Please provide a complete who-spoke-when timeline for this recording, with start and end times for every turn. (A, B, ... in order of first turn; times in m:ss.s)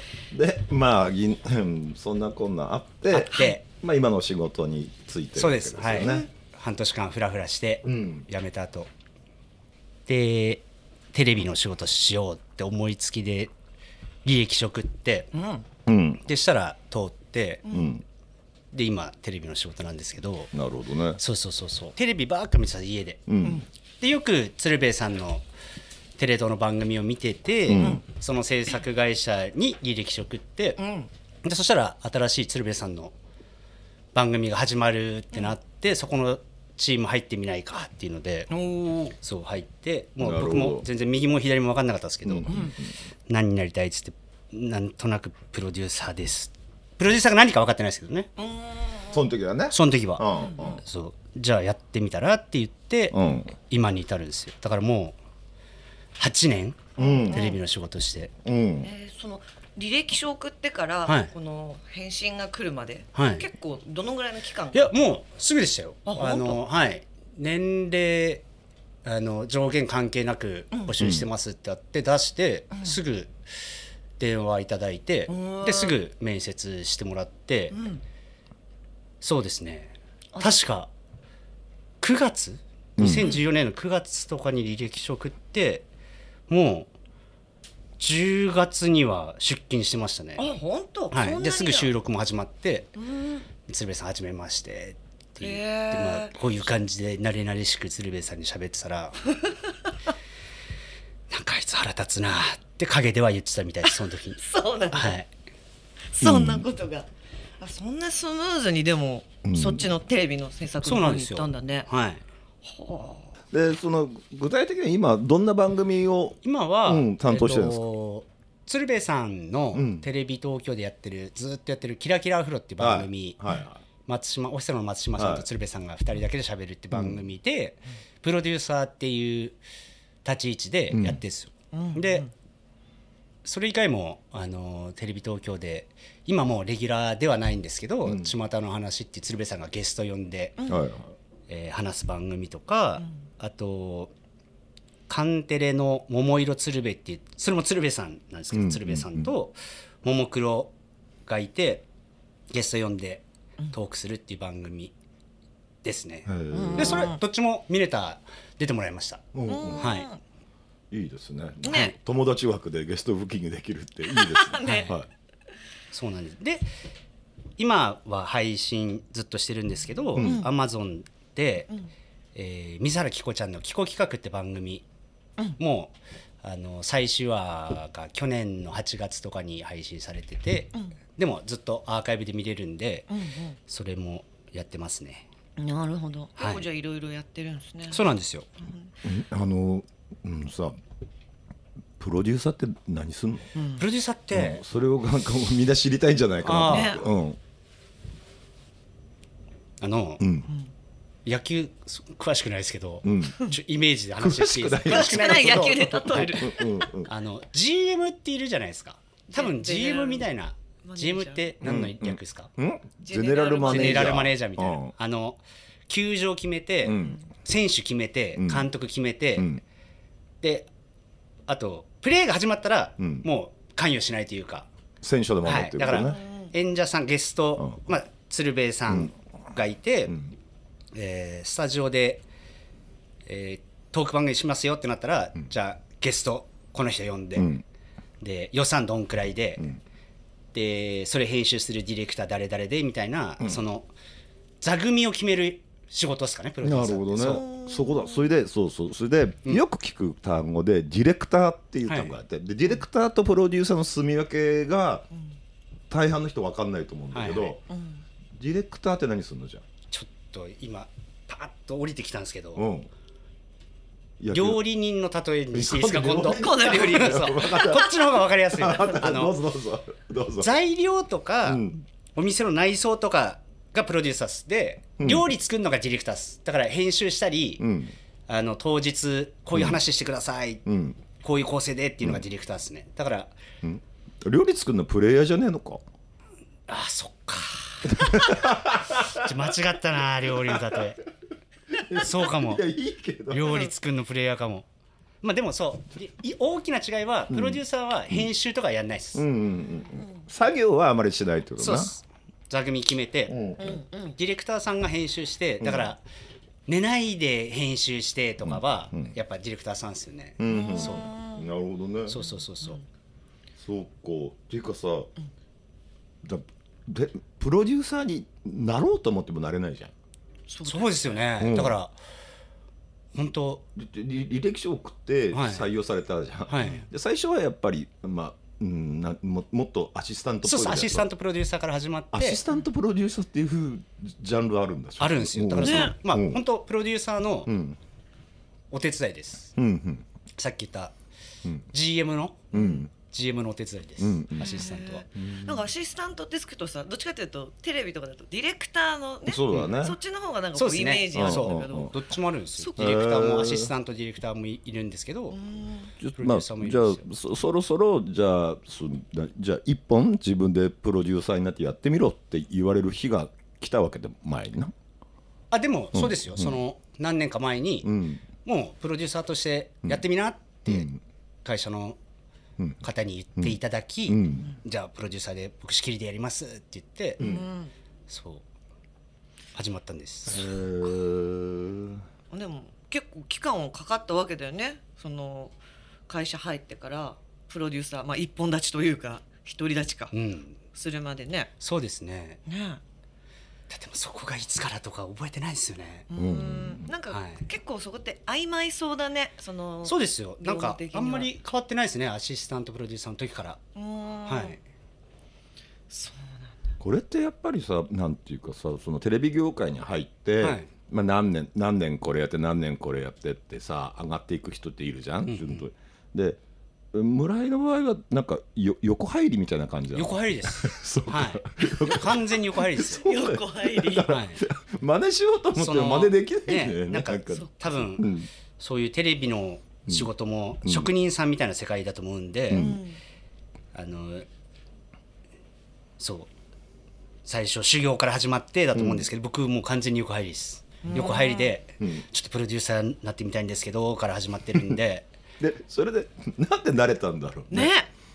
0:00.3-0:06.3 A
0:03.1-0:03.5 B
0:03.3-0:03.6 C
0:05.4-0:08.9 C
0:06.0-0:06.3 B
0:07.8-0:08.2 A
0:10.1-0:13.5 C
0:14.2-0:15.3 C
0:15.3-0:15.6 B
0:15.8-0:16.2 A
0:16.2-0:17.6 C
0:17.6-0:17.9 B
0:17.7-0:18.0 A
0:18.7-0:20.5 C
0:20.5-0:21.2 A
0:21.2-0:23.2 C
0:23.3-0:23.6 A
0:24.0-0:25.4 C
0:26.2-0:30.8 C
0:27.7-0:28.0 A
0:27.7-0:28.0 B
0:30.8-0:31.1 B
0:31.4-0:33.1 C
0:34.1-0:38.5 C
0:38.5-0:39.2 B
0:39.2-0:42.7 C
0:40.2-0:40.8 A
0:42.2-0:43.0 A
0:42.5-0:42.7 B
0:43.3-0:48.3 C
0:48.4-0:49.2 B
0:49.1-0:50.8 A
0:49.7-0:53.1 C
0:50.4-0:50.8 B
0:53.1-0:53.5 A
0:53.7-0:55.2 C
0:56.2-0:58.3 C
0:57.0-0:57.5 A
0:57.0-0:57.6 B
0:58.4-0:58.9 A
0:58.8-1:04.9 B
1:01.0-1:01.3 C
1:03.2-1:03.5 C
1:04.7-1:08.4 C
1:06.0-1:06.6 B
1:09.0-1:13.4 C
1:11.0-1:11.3 A
1:14.2-1:17.8 C
1:15.3-1:15.9 B
1:17.7-1:18.0 B
1:19.2-1:20.9 C
1:22.0-1:25.8 C
1:23.0-1:23.2 A
1:23.1-1:23.4 B
1:26.5-1:26.9 C
1:28.0-1:30.5 C
1:30.4-1:31.9 B
1:31.1-1:32.9 C
1:33.0-1:33.4 B
1:33.6-1:39.2 C
1:35.4-1:36.3 B
1:41.3-1:44.4 C
1:44.4-1:45.2 B
1:44.9-1:45.3 C
1:46.1-1:47.1 B
1:46.2-1:46.7 A
1:47.6-1:51.9 B
1:49.4-1:49.9 A
1:50.8-1:52.2 C
1:52.6-1:53.3 B
1:53.5-1:57.8 A
1:56.4-2:03.4 C
1:59.7-2:00.0 A
2:02.8-2:03.8 A
2:04.0-2:09.6 C
2:05.2-2:05.4 A
2:06.9-2:07.3 A
2:10.2-2:12.3 C
2:10.9-2:11.2 A
2:11.7-2:12.3 B
2:13.4-2:20.6 C
2:18.0-2:18.3 A
2:20.6-2:21.1 A
2:21.5-2:24.1 C
2:25.1-2:30.7 C
2:28.5-2:29.3 A
2:31.2-2:31.8 C
2:32.5-2:34.9 C
2:35.8-2:39.2 C
2:36.2-2:37.1 A
2:36.5-2:37.2 B
2:39.3-2:39.9 A
2:39.5-2:40.2 B
2:39.8-2:40.1 C
2:40.9-2:45.1 A
2:41.6-2:41.9 B
2:41.7-2:41.9 C
2:44.1-2:44.9 B
2:44.6-2:45.0 C
2:45.9-2:46.6 C
2:47.6-2:51.7 C
2:50.1-2:50.5 A
2:50.2-2:50.5 B
2:52.3-2:54.8 C
2:55.6-3:03.1 C
3:03.1-3:03.6 B
3:03.7-3:05.2 C
3:05.6-3:08.0 B
3:06.4-3:06.6 C
3:07.9-3:08.5 C
3:08.6-3:08.9 B
3:09.0-3:10.8 A
3:12.0-3:13.5 A
3:13.6-3:13.8 B
3:13.8-3:14.6 C
3:14.3-3:17.4 A
3:16.4-3:17.0 C
3:16.7-3:17.0 B
3:19.8-3:20.2 C
3:20.2-3:20.5 A
3:21.2-3:26.3 C
3:23.0-3:23.4 A
3:24.2-3:27.1 A
3:24.9-3:26.9 B
3:27.0-3:32.5 C
3:29.3-3:30.3 B
3:30.8-3:31.5 B
3:31.6-3:34.9 A
3:33.0-3:34.2 B
3:33.6-3:39.5 C
3:36.8-3:37.2 A
3:38.4-3:38.7 A
3:39.4-3:39.6 A
3:40.4-3:40.7 C
3:41.5-3:44.7 C
3:43.0-3:43.2 A
3:45.0-3:46.2 A
3:45.4-3:50.1 C
3:50.9-3:52.2 C
3:53.2-3:57.5 C
3:57.4-3:57.6 A
3:58.2-3:59.7 C
4:00.5-4:03.9 C
4:04.6-4:07.4 C
4:06.6-4:15.1 A
4:07.2-4:08.2 B
4:11.8-4:12.2 C
4:15.9-4:17.6 A
4:17.1-4:17.6 C
4:17.7-4:18.0 B
4:18.3-4:19.6 A
4:19.9-4:22.7 C
4:22.6-4:22.9 A
4:24.2-4:24.6 A
4:24.3-4:29.4 C
4:25.5-4:27.9 A
4:26.3-4:27.8 B
4:28.5-4:30.5 A
4:30.4-4:37.6 C
4:31.4-4:31.8 A
4:35.0-4:35.3 A
4:37.6-4:37.9 A
4:38.3-4:40.6 C
4:39.5-4:39.8 A
4:40.6-4:41.0 A
4:41.2-4:43.3 C
4:43.6-4:45.8 A
4:46.7-4:51.0 C
4:47.9-4:49.4 A
4:50.4-4:50.9 A
4:51.7-4:53.6 A
4:51.9-4:52.6 C
4:53.3-4:54.7 C
4:55.2-4:59.2 C
4:57.3-4:58.3 A
4:59.1-5:01.9 A
5:01.6-5:01.9 C
5:02.5-5:03.3 C
5:03.3-5:03.8 A
5:03.6-5:04.2 B
5:04.1-5:06.0 C
5:05.6-5:05.9 A
5:06.7-5:11.1 C
5:08.4-5:09.1 A
5:10.4-5:12.2 A
5:10.5-5:11.4 B
5:12.1-5:12.8 C
5:13.6-5:15.1 A
5:16.2-5:19.9 A
5:20.5-5:21.2 B
5:20.6-5:21.9 C
5:21.4-5:21.8 A
5:23.1-5:23.6 C
5:23.8-5:31.1 A
5:25.3-5:25.6 C
5:26.5-5:26.8 C
5:26.6-5:26.8 B
5:30.4-5:32.4 C
5:32.1-5:36.4 A
5:35.0-5:37.5 C
5:35.6-5:36.0 B
5:37.5-5:37.8 A
5:38.7-5:39.5 C
5:39.6-5:40.0 A
5:40.4-5:40.9 C
5:41.7-5:45.0 C
5:42.5-5:42.9 A
5:42.5-5:42.8 B
5:44.0-5:45.7 A
5:44.4-5:52.0 B
5:49.2-5:50.0 A
5:50.5-5:55.4 C
5:51.1-5:51.9 A
5:52.8-5:53.7 A
5:55.3-5:55.9 B
5:56.0-6:04.7 A
5:56.2-5:57.0 C
6:05.5-6:07.9 C
6:05.9-6:06.6 A
6:07.8-6:08.2 A
6:08.4-6:10.9 C
6:10.6-6:11.0 A
6:11.4-6:12.0 C
6:12.8-6:17.2 C
6:13.4-6:14.5 A
6:17.2-6:17.4 A
6:17.2-6:17.7 B
6:18.1-6:18.4 C
6:19.5-6:20.4 C
6:20.3-6:22.0 A
6:22.3-6:25.5 B
6:26.1-6:30.1 B
6:30.1-6:30.6 C
6:30.7-6:31.5 B
6:31.6-6:32.4 C
6:32.4-6:32.8 B
6:33.7-6:36.1 C
6:36.1-6:41.3 B
6:36.1-6:36.9 A
6:37.1-6:37.5 C
6:39.8-6:43.6 C
6:43.7-6:44.6 B
6:44.2-6:44.6 C
6:45.9-6:46.6 B
6:46.8-6:56.4 A
6:50.4-6:50.7 C
6:55.2-6:55.6 C
6:56.9-7:08.3 A
6:59.9-7:03.0 C
7:03.0-7:04.1 B
7:04.1-7:04.4 C
7:05.5-7:12.7 C
7:10.6-7:10.9 A
7:12.5-7:12.8 A
7:12.5-7:13.0 B
7:13.7-7:14.3 C
7:16.0-7:16.3 C
7:17.2-7:25.1 C
7:18.7-7:19.0 A
7:20.8-7:21.5 B
7:21.8-7:22.0 A
7:25.4-7:27.7 A
7:27.5-7:27.9 B